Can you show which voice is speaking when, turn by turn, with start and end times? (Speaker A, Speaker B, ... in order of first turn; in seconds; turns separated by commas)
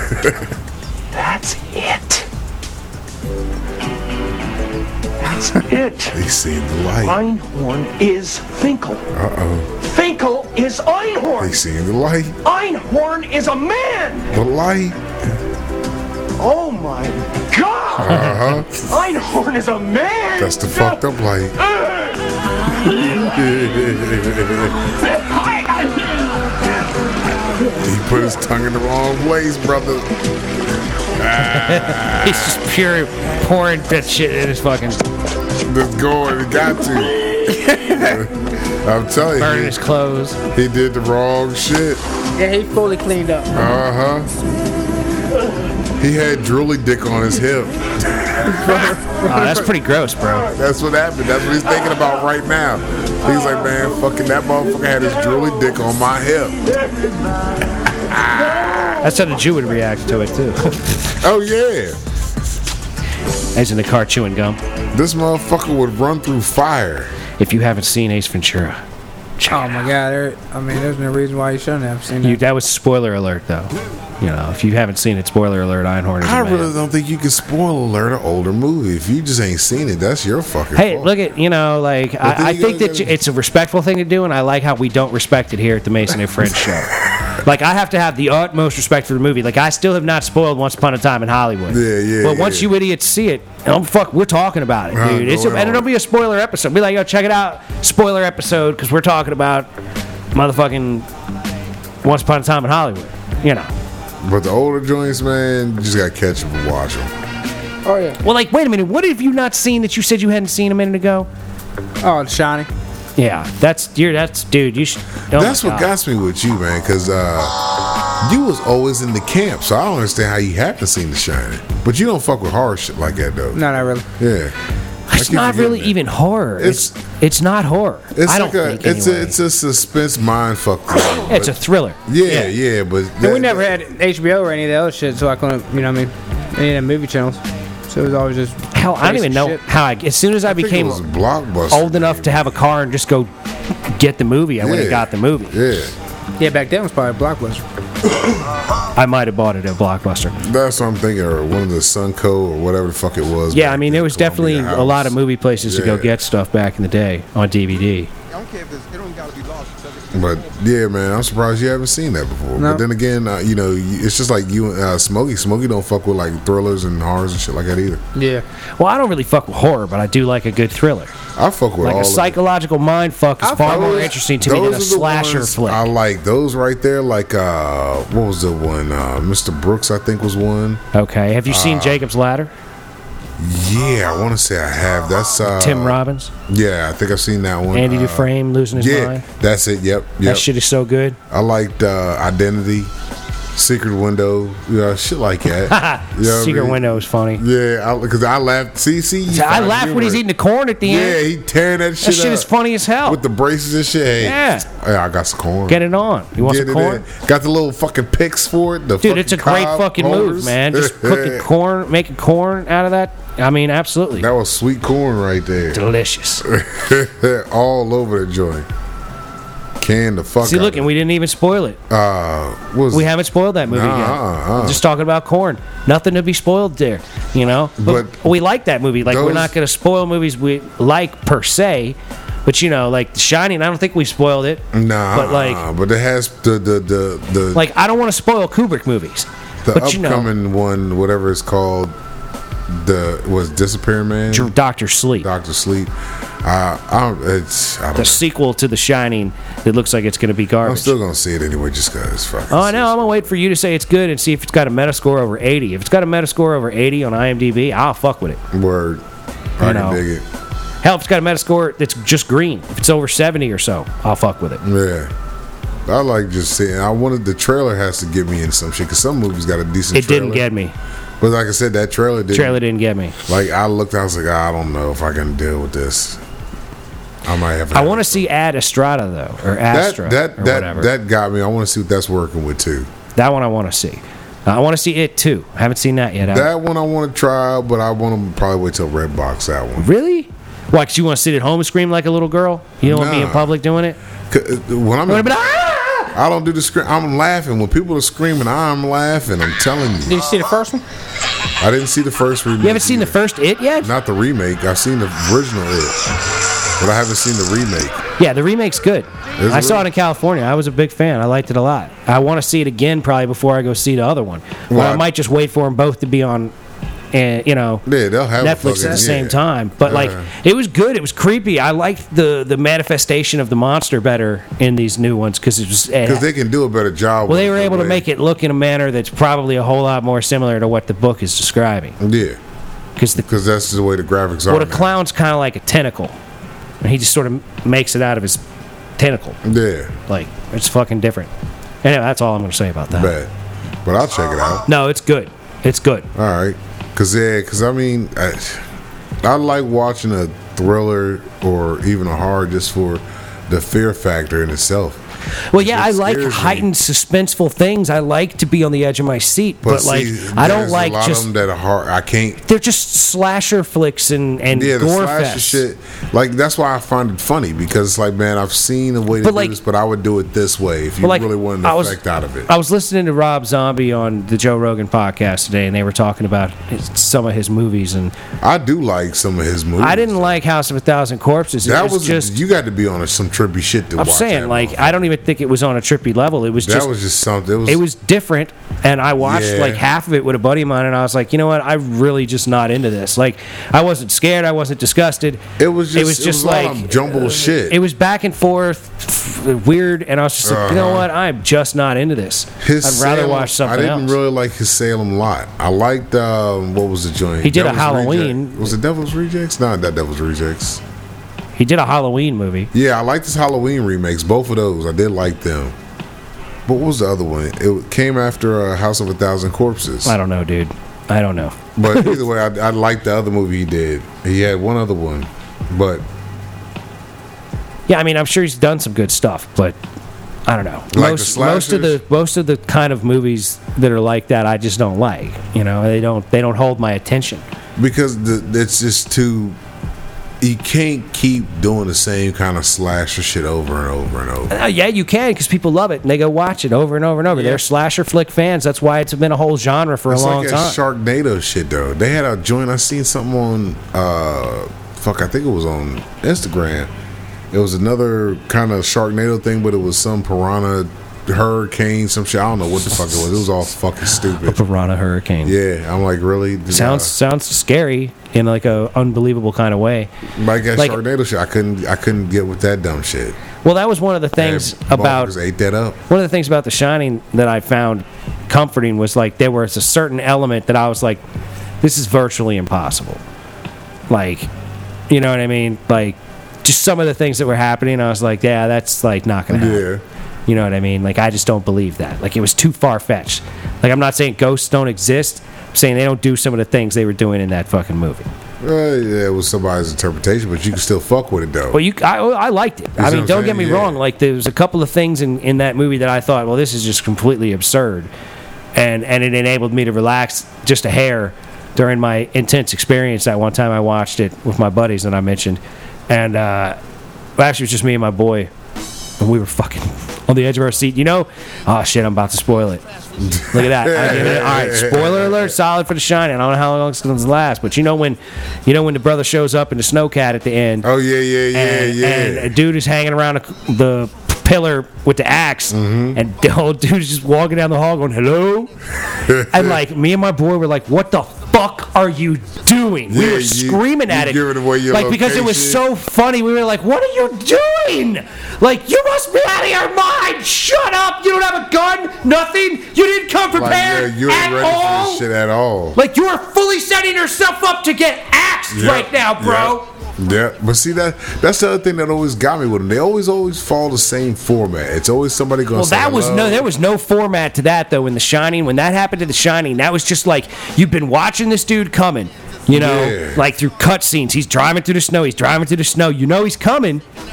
Speaker A: 1.1-2.2, Speaker A: 5.2-6.2, Speaker B: 6.1-7.2, Speaker A: 7.0-9.1, Speaker B: 9.1-9.7, Speaker A: 9.8-11.6, Speaker B: 11.4-12.4, Speaker A: 12.4-14.3, Speaker B: 14.3-15.0, Speaker A: 16.4-21.0, Speaker B: 18.0-18.8, Speaker B: 20.4-21.6, Speaker A: 21.6-23.8, Speaker B: 22.9-24.9, Speaker A: 24.7-26.6, Speaker B: 27.7-30.2, Speaker B: 31.1-32.6, Speaker C: 31.4-35.0, Speaker B: 35.6-37.3, Speaker D: 37.5-38.3, Speaker B: 37.9-39.8, Speaker C: 39.4-40.4, Speaker B: 40.5-42.0, Speaker D: 42.4-43.6, Speaker B: 43.5-44.3, Speaker B: 46.0-49.0, Speaker D: 48.5-49.7, Speaker C: 49.2-50.5, Speaker B: 50.5-56.6, Speaker B: 58.0-59.0, Speaker C: 59.0-60.8, Speaker B: 61.1-62.0, Speaker C: 63.5-64.6, Speaker B: 64.9-67.1, Speaker C: 67.4-68.8, Speaker C: 69.4-69.8, Speaker D: 69.5-72.4, Speaker C: 72.2-76.7, Speaker B: 76.2-81.1, Speaker C: 80.7-99.7, Speaker B: 82.2-83.1, Speaker B: 91.7-92.7, Speaker B: 94.9-95.9, Speaker C: 100.3-101.0, Speaker C: 102.0-103.7, Speaker B: 104.2-107.1, Speaker D: 107.8-108.2, Speaker C: 108.2-111.3, Speaker D: 112.0-112.7, Speaker C: 113.2-115.9, Speaker B: 115.3-117.5, Speaker B: 118.2-124.5, Speaker D: 123.5-124.1, Speaker C: 125.1-129.4, Speaker B: 125.1-126.0, Speaker B: 126.6-126.9, Speaker B: 128.1-133.7, Speaker C: 131.3-132.5, Speaker D: 133.2-139.6, Speaker C: 138.7-141.0, Speaker B: 140.4-142.6, Speaker C: 141.7-143.3, Speaker C: 143.9-145.6, Speaker B: 144.6-145.9, Speaker D: 146.4-147.6, Speaker C: 148.9-150.4, Speaker B: 150.4-156.1, Speaker C: 153.5-158.1, Speaker B: 160.1-168.0, Speaker D: 162.6-162.8, Speaker D: 168.1-168.4, Speaker C: 168.8-171.1, Speaker B: 171.3-172.4, Speaker C: 171.8-175.9, Speaker D: 173.4-174.1, Speaker B: 173.6-180.8, Speaker C: 180.9-182.5, Speaker B: 181.5-182.0, Speaker B: 183.4-190.5, Speaker C: 185.4-186.3, Speaker C: 187.7-189.2, Speaker C: 190.2-191.2, Speaker B: 191.3-192.9, Speaker B: 193.5-200.2, Speaker C: 195.6-197.4, Speaker C: 199.3-201.2, Speaker B: 200.8-202.5, Speaker C: 202.0-203.2, Speaker B: 203.0-205.8, Speaker C: 204.2-204.7, Speaker C: 205.7-207.0, Speaker B: 206.3-211.5, Speaker C: 209.0-214.3, Speaker B: 214.2-215.8, Speaker C: 215.7-216.4, Speaker B: 216.4-218.7, Speaker B: 219.8-220.9, Speaker C: 220.4-221.8, Speaker B: 221.9-223.1, Speaker C: 222.9-235.6, Speaker B: 223.6-224.8, Speaker B: 227.8-228.2, Speaker B: 229.0-229.5, Speaker B: 234.7-237.6, Speaker C: 237.5-240.3, Speaker B: 239.6-241.9, Speaker B: 242.7-244.5, Speaker C: 244.3-245.3, Speaker B: 245.2-245.9, Speaker B: 246.4-248.2, Speaker C: 247.9-250.9, Speaker B: 250.6-253.3, Speaker C: 252.5-258.4, Speaker B: 258.5-259.0, Speaker B: 259.6-260.2, Speaker C: 259.6-260.0, Speaker C: 260.8-264.6, Speaker B: 264.6-265.1, Speaker B: 265.9-270.5, Speaker C: 269.9-270.7, Speaker B: 271.2-272.6, Speaker C: 272.3-273.2, Speaker B: 273.2-276.2, Speaker B: 277.2-278.3, Speaker C: 277.7-280.9, Speaker B: 279.7-282.9, Speaker C: 283.1-286.5, Speaker B: 286.3-289.9, Speaker C: 289.8-294.0, Speaker B: 292.8-293.5, Speaker B: 294.3-295.4, Speaker C: 295.1-296.1, Speaker B: 296.1-300.2, Speaker D: 300.1-300.8, Speaker B: 301.6-303.2, Speaker C: 302.6-303.9, Speaker B: 303.8-306.1, Speaker B: 306.8-308.0, Speaker C: 308.2-316.5, Speaker B: 309.4-309.9, Speaker B: 314.7-315.0, Speaker C: 317.1-317.8, Speaker B: 317.9-320.3, Speaker C: 318.4-326.3, Speaker B: 326.0-328.0, Speaker C: 327.3-332.0, Speaker B: 332.0-332.4, Speaker C: 333.0-333.3, Speaker B: 333.2-334.9, Speaker C: 334.5-336.2, Speaker C: 336.8-338.4, Speaker C: 339.0-339.4, Speaker B: 339.4-340.0, Speaker C: 340.1-341.3, Speaker C: 341.8-343.1, Speaker B: 342.9-343.3, Speaker B: 343.8-344.6, Speaker C: 344.6-346.1, Speaker B: 346.1-348.6, Speaker B: 349.2-355.0, Speaker C: 355.5-361.3, Speaker B: 355.5-356.7, Speaker B: 359.6-362.4, Speaker C: 362.4-365.6, Speaker B: 364.5-372.5, Speaker C: 369.2-369.6, Speaker C: 371.0-378.1, Speaker B: 378.4-380.4, Speaker C: 379.8-382.4, Speaker B: 381.6-385.1, Speaker C: 383.9-386.9, Speaker B: 386.6-387.8, Speaker C: 387.7-404.1, Speaker B: 389.2-389.8, Speaker B: 395.6-397.8, Speaker B: 400.4-401.1, Speaker B: 402.6-410.8, Speaker C: 407.4-408.7, Speaker C: 411.6-412.7, Speaker B: 412.7-415.7, Speaker B: 416.6-420.1, Speaker C: 420.0-422.2, Speaker B: 421.8-426.0, Speaker C: 427.9-429.8, Speaker C: 430.5-437.4, Speaker B: 430.9-432.0, Speaker B: 437.8-439.6, Speaker B: 440.4-444.5, Speaker C: 444.5-450.8, Speaker B: 450.1-456.9, Speaker B: 457.5-464.6, Speaker C: 464.4-465.6, Speaker B: 465.4-467.1, Speaker C: 466.7-470.1, Speaker B: 470.4-473.4, Speaker C: 473.6-475.3, Speaker B: 474.4-476.0, Speaker C: 476.1-481.2, Speaker C: 481.8-483.2, Speaker C: 484.1-484.5, Speaker C: 485.1-489.8, Speaker B: 489.5-490.0, Speaker C: 490.5-498.3, Speaker B: 498.6-501.8, Speaker C: 501.7-508.1, Speaker B: 503.0-504.0, Speaker C: 508.7-516.8, Speaker C: 517.4-518.5, Speaker C: 519.2-522.8, Speaker B: 523.2-525.6, Speaker C: 523.5-530.9, Speaker B: 530.8-532.5, Speaker C: 531.5-538.7, Speaker B: 535.7-536.2, Speaker B: 539.1-539.8, Speaker C: 539.5-555.2, Speaker B: 543.1-545.8, Speaker B: 553.5-556.0, Speaker C: 556.0-559.9, Speaker B: 558.7-566.7, Speaker C: 565.7-577.0, Speaker B: 572.7-573.4